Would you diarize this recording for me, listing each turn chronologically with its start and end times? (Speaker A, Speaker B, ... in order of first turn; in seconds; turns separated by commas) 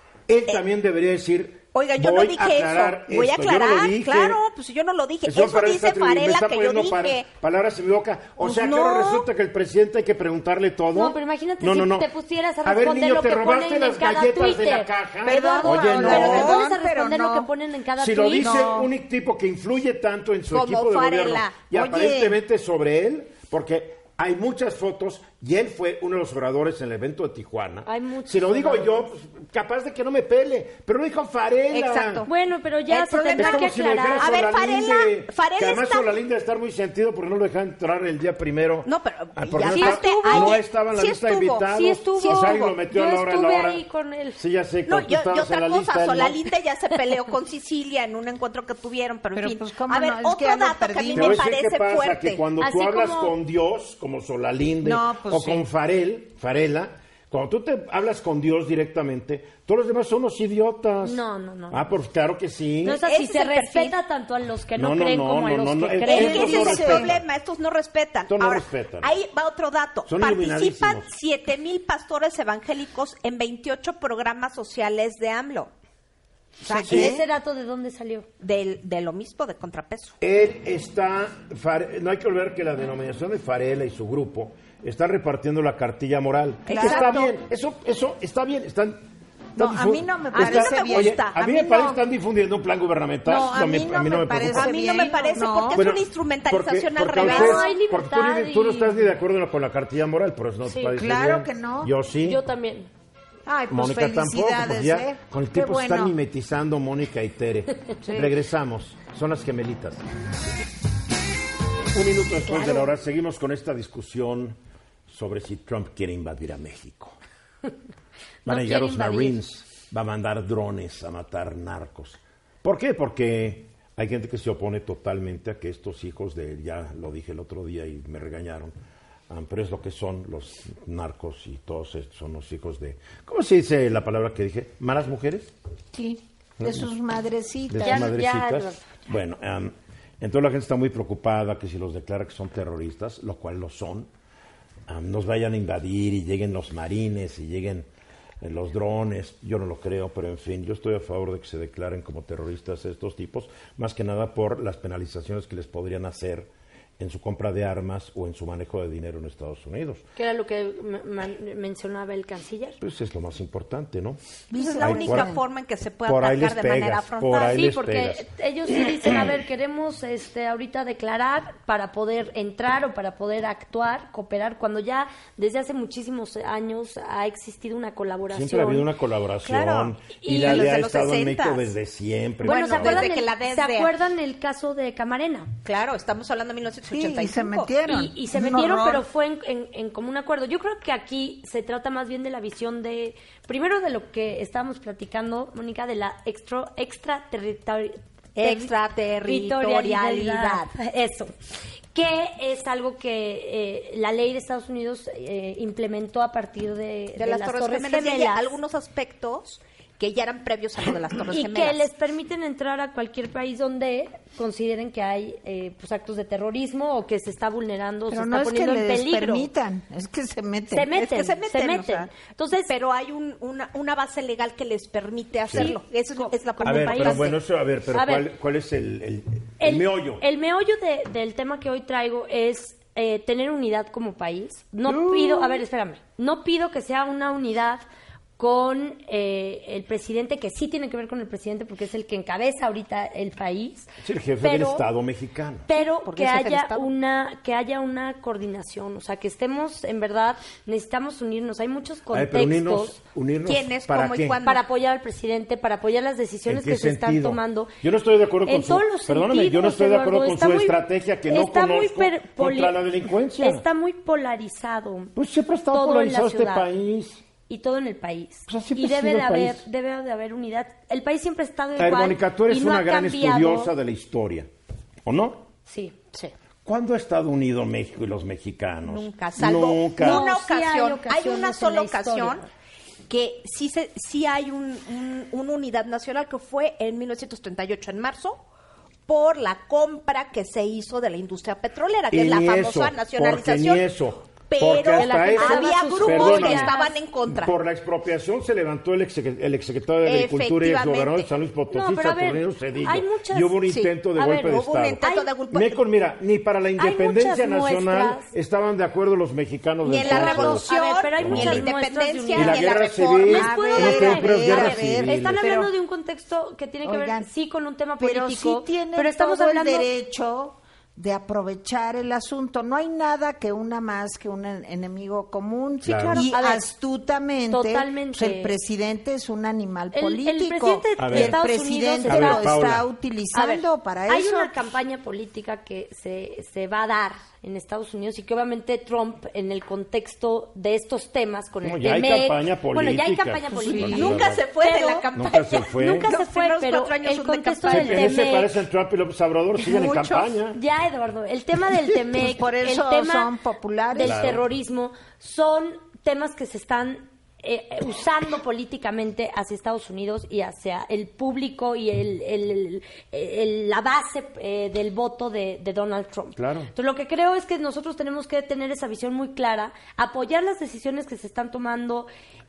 Speaker A: 0.3-4.4, Speaker B: 1.7-7.3, Speaker A: 5.3-12.1, Speaker B: 8.4-9.3, Speaker C: 10.9-18.7, Speaker A: 12.6-16.5, Speaker D: 15.2-17.5, Speaker B: 15.4-16.6, Speaker A: 18.0-32.3, Speaker D: 18.4-18.9, Speaker B: 20.5-21.6, Speaker D: 21.7-22.4, Speaker C: 27.9-29.1, Speaker B: 31.7-32.3, Speaker C: 32.3-34.3, Speaker B: 32.9-36.2, Speaker A: 33.3-43.8, Speaker B: 38.9-41.7, Speaker C: 39.7-40.6, Speaker C: 41.7-44.4, Speaker B: 42.2-42.8, Speaker A: 44.4-46.4, Speaker B: 44.9-52.4, Speaker D: 49.3-51.5, Speaker A: 51.1-61.2, Speaker C: 52.6-53.4, Speaker D: 54.8-55.6, Speaker C: 61.0-61.9, Speaker A: 61.7-63.0, Speaker C: 62.8-66.9, Speaker B: 63.0-64.0, Speaker A: 64.8-67.2, Speaker B: 66.1-75.7, Speaker D: 66.2-67.1, Speaker A: 68.3-69.1, Speaker A: 70.1-71.1, Speaker D: 76.7-77.3, Speaker B: 76.7-77.2, Speaker C: 76.9-78.3, Speaker A: 76.9-77.1, Speaker B: 78.4-80.2, Speaker A: 80.2-89.0, Speaker D: 86.7-87.3, Speaker B: 86.7-87.3, Speaker D: 89.6-92.0, Speaker A: 89.6-95.0, Speaker B: 90.3-91.4, Speaker D: 93.3-95.8, Speaker B: 94.5-97.7, Speaker A: 95.7-102.4, Speaker C: 97.2-99.1, Speaker C: 100.7-101.0, Speaker D: 100.9-101.9, Speaker C: 102.2-102.9, Speaker D: 103.5-106.2, Speaker A: 103.7-110.0, Speaker D: 108.0-108.3, Speaker A: 111.9-114.6, Speaker A: 115.1-117.2, Speaker C: 118.5-119.4, Speaker A: 118.5-128.7, Speaker A: 129.3-135.5, Speaker D: 135.9-138.1, Speaker A: 136.6-136.9, Speaker A: 137.7-144.1, Speaker C: 137.8-138.8, Speaker A: 144.9-147.9, Speaker A: 148.4-160.1, Speaker C: 160.2-162.8, Speaker A: 162.8-164.2, Speaker D: 164.5-165.4, Speaker B: 164.6-167.7, Speaker A: 164.8-165.4, Speaker A: 166.1-168.3, Speaker C: 167.5-178.9, Speaker A: 168.8-169.2, Speaker A: 178.3-183.1, Speaker B: 179.4-181.8, Speaker C: 180.2-180.8, Speaker B: 182.4-183.9, Speaker C: 182.4-185.5, Speaker B: 185.7-187.7, Speaker D: 186.9-189.1, Speaker C: 187.9-198.7, Speaker B: 198.4-200.7, Speaker C: 199.2-201.3, Speaker C: 201.9-208.5, Speaker B: 207.2-211.9, Speaker C: 211.3-219.5, Speaker D: 218.1-221.0, Speaker C: 220.7-222.7, Speaker B: 220.9-222.1, Speaker B: 222.7-227.4, Speaker C: 225.5-227.4, Speaker A: 226.6-230.2, Speaker C: 227.9-228.3, Speaker C: 229.6-237.8, Speaker A: 234.9-235.6, Speaker C: 238.4-243.9, Speaker A: 244.0-245.7, Speaker C: 244.4-244.8, Speaker C: 245.7-253.0, Speaker B: 245.7-246.9, Speaker A: 252.1-254.4, Speaker B: 253.4-254.6, Speaker C: 254.4-257.7, Speaker A: 256.5-263.6, Speaker C: 258.4-260.8, Speaker C: 261.3-262.8, Speaker C: 263.4-265.1, Speaker A: 265.2-267.2, Speaker C: 265.7-266.7, Speaker C: 267.5-273.7, Speaker A: 268.5-269.6, Speaker A: 271.8-274.5, Speaker A: 275.1-275.5, Speaker C: 275.7-276.0, Speaker A: 276.6-280.2, Speaker B: 278.8-282.4, Speaker C: 280.0-282.5, Speaker B: 283.1-288.4, Speaker B: 289.1-293.9, Speaker A: 292.1-296.7, Speaker B: 294.4-297.5, Speaker C: 295.0-296.9, Speaker A: 297.3-305.0, Speaker B: 300.1-301.3, Speaker C: 301.7-305.3, Speaker B: 303.7-305.8, Speaker A: 305.5-310.7, Speaker C: 306.8-308.3, Speaker B: 309.8-314.6, Speaker C: 310.0-319.9, Speaker A: 311.2-311.7, Speaker A: 312.4-315.4, Speaker D: 313.3-315.7, Speaker D: 316.8-317.3, Speaker D: 318.0-334.6, Speaker A: 325.8-326.3, Speaker C: 325.9-326.7, Speaker C: 327.5-328.6, Speaker C: 329.9-332.6, Speaker A: 331.0-331.4, Speaker A: 332.1-332.8, Speaker C: 333.3-345.1, Speaker A: 341.6-344.4, Speaker D: 343.5-344.0, Speaker B: 343.8-348.3, Speaker A: 345.1-346.1, Speaker C: 345.8-348.5, Speaker A: 347.7-350.6, Speaker B: 349.8-350.1, Speaker C: 350.0-353.3, Speaker D: 352.1-354.3, Speaker C: 353.9-372.1, Speaker A: 354.0-354.4, Speaker A: 366.4-366.7